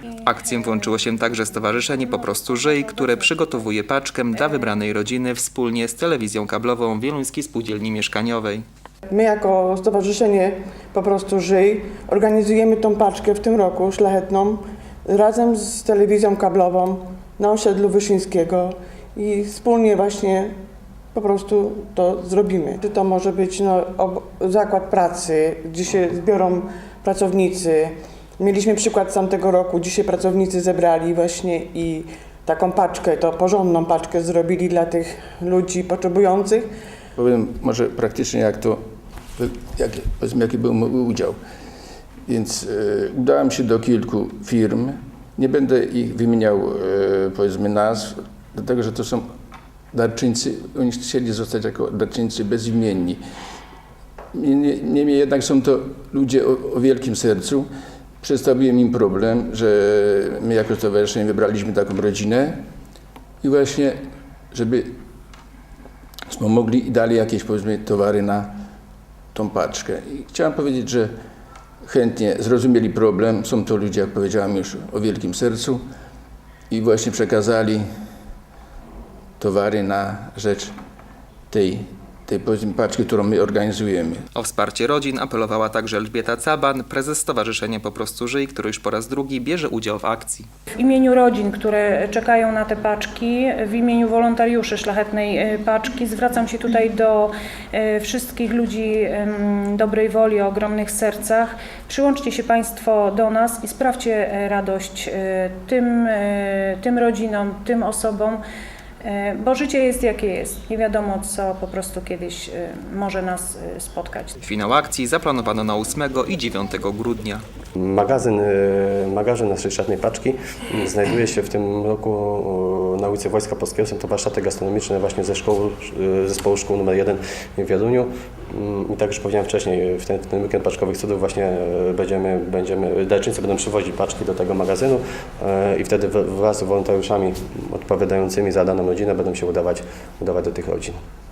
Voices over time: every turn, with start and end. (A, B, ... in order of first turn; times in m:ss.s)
0:00.2-0:08.6 A
0:00.4-0:03.5 B
0:09.1-0:20.5 C
0:21.1-0:36.7 C
0:37.2-0:38.8 D
0:39.4-0:41.4 D
0:42.3-0:49.2 D
0:49.9-0:53.2 D
0:54.3-0:57.7 D
0:58.2-1:02.6 D
1:03.4-1:04.0 D
1:04.5-1:05.0 D
1:06.3-1:08.5 D
1:09.3-1:11.1 D
1:11.8-1:15.8 D
1:16.7-1:17.8 D
1:19.4-1:20.7 D
1:21.5-1:24.3 D
1:24.4-1:30.5 A
1:30.8-1:48.4 B
1:49.0-1:54.4 B
1:54.4-1:57.4 A
1:57.8-2:21.0 E